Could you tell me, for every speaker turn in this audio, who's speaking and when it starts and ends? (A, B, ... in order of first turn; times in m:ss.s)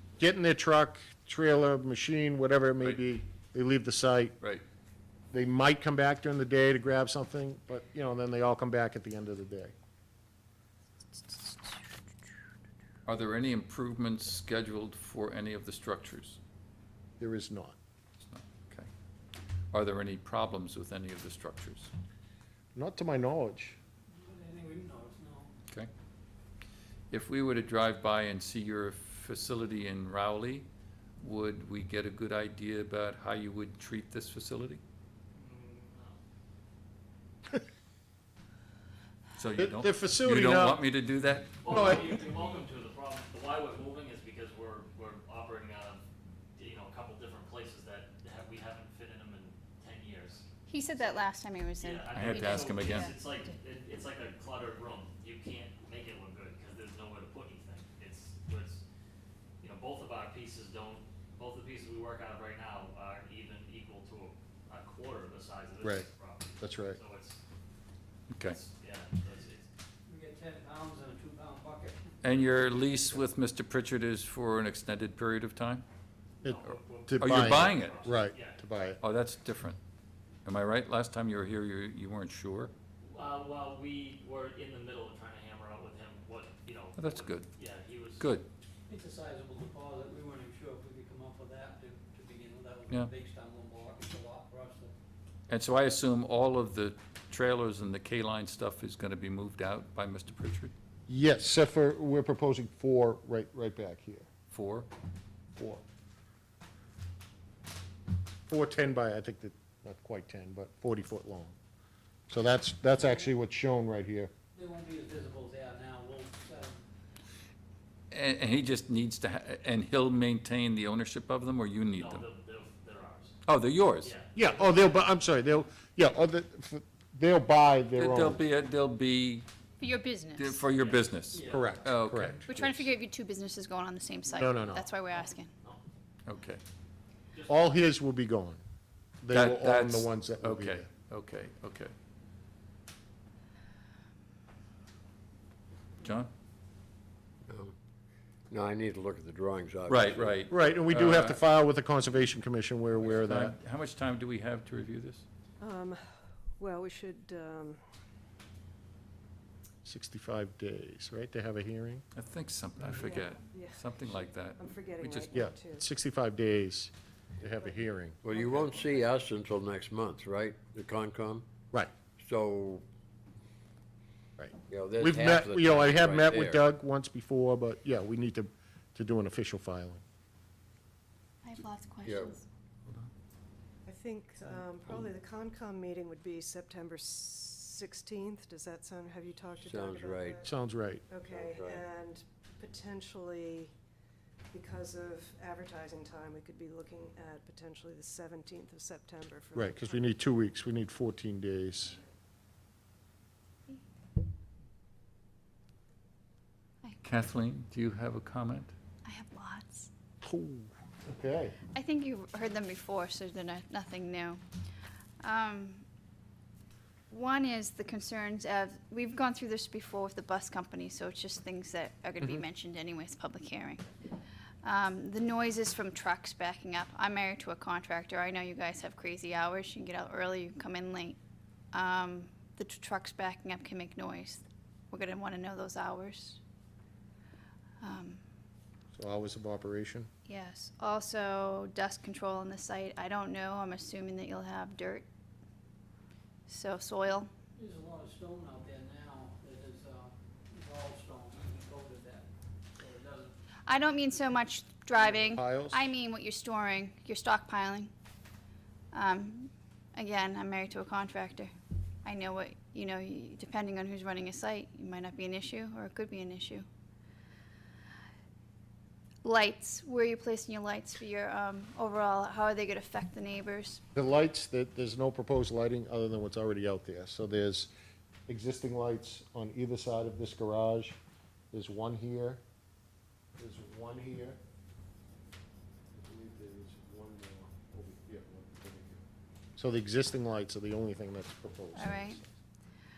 0:00.2-0:04.4 A
0:05.3-0:09.7 A
0:13.1-0:16.4 B
0:17.2-0:17.8 A
0:18.2-0:18.9 B
0:19.7-0:21.9 B
0:22.8-0:23.8 A
0:24.2-0:25.5 C
0:27.1-0:30.7 B
0:31.2-0:34.8 B
0:35.4-0:36.2 D
0:39.4-0:42.2 B
0:39.6-0:40.9 A
0:41.6-0:46.0 D
0:41.7-0:42.1 A
0:46.6-0:50.5 D
0:50.7-0:53.2 E
0:51.8-0:58.8 D
0:52.1-0:53.1 B
0:59.6-1:07.4 D
1:05.8-1:06.1 A
1:06.6-1:07.0 A
1:08.3-1:08.6 B
1:08.5-1:09.7 D
1:10.1-1:12.0 C
1:12.2-1:15.8 B
1:16.4-1:18.6 D
1:16.4-1:19.0 A
1:17.2-1:18.1 B
1:19.0-1:19.8 B
1:20.4-1:22.7 B
1:23.0-1:28.2 D
1:27.0-1:27.5 B
1:28.2-1:28.5 B
1:28.9-1:34.9 C
1:35.5-1:40.7 B
1:41.1-1:44.3 A
1:44.5-1:44.9 B
1:45.6-1:45.8 A
1:48.5-1:51.6 A
1:52.3-1:54.3 A
1:54.5-1:56.8 C
1:58.1-2:02.2 B
2:02.0-2:03.4 D
2:03.5-2:04.2 B
2:04.0-2:05.0 D
2:04.4-2:08.4 A
2:08.0-2:09.5 B
2:09.8-2:10.6 E
2:10.4-2:12.4 B
2:10.7-2:11.8 D
2:11.5-2:12.8 A
2:12.5-2:15.5 E
2:14.3-2:14.8 A
2:16.3-2:16.6 B
2:17.3-2:17.6 D
2:17.5-2:18.6 A
2:19.2-2:20.9 A
2:19.3-2:21.9 B
2:26.0-2:26.3 B
2:27.5-2:27.8 F
2:28.5-2:30.4 F
2:29.9-2:31.4 B
2:30.5-2:33.6 A
2:33.0-2:35.2 B
2:35.6-2:37.8 G
2:39.8-2:42.0 A
2:42.1-2:45.3 B
2:42.9-2:45.9 G
2:45.3-2:48.2 A
2:48.2-2:51.5 F
2:48.3-2:49.2 G
2:52.2-2:52.9 F
2:54.4-3:00.0 A
2:54.7-2:56.6 F
3:01.4-3:02.5 E
3:02.0-3:02.4 F
3:03.8-3:13.8 G
3:09.7-3:10.4 F
3:10.4-3:11.0 A
3:11.3-3:11.8 F
3:14.5-3:20.3 G
3:19.6-3:22.0 A
3:27.0-3:28.7 B
3:29.0-3:29.9 E
3:30.2-3:31.6 A
3:31.7-3:34.4 E
3:35.2-3:35.8 E
3:37.1-3:43.8 E
3:44.6-3:51.2 E
3:51.7-3:56.4 E
3:57.8-3:58.2 E
3:59.0-4:00.1 A
4:00.3-4:05.1 E
4:06.5-4:07.3 E
4:07.6-4:13.3 C
4:13.7-4:17.9 E
4:15.0-4:15.9 A
4:18.9-4:21.5 E
4:22.0-4:26.7 E
4:29.2-4:33.8 E
4:34.0-4:37.7 A
4:38.3-4:41.0 A
4:41.5-4:42.4 A
4:43.4-4:44.4 A
4:45.9-4:49.0 A
4:49.6-4:52.3 A
4:51.7-4:52.2 E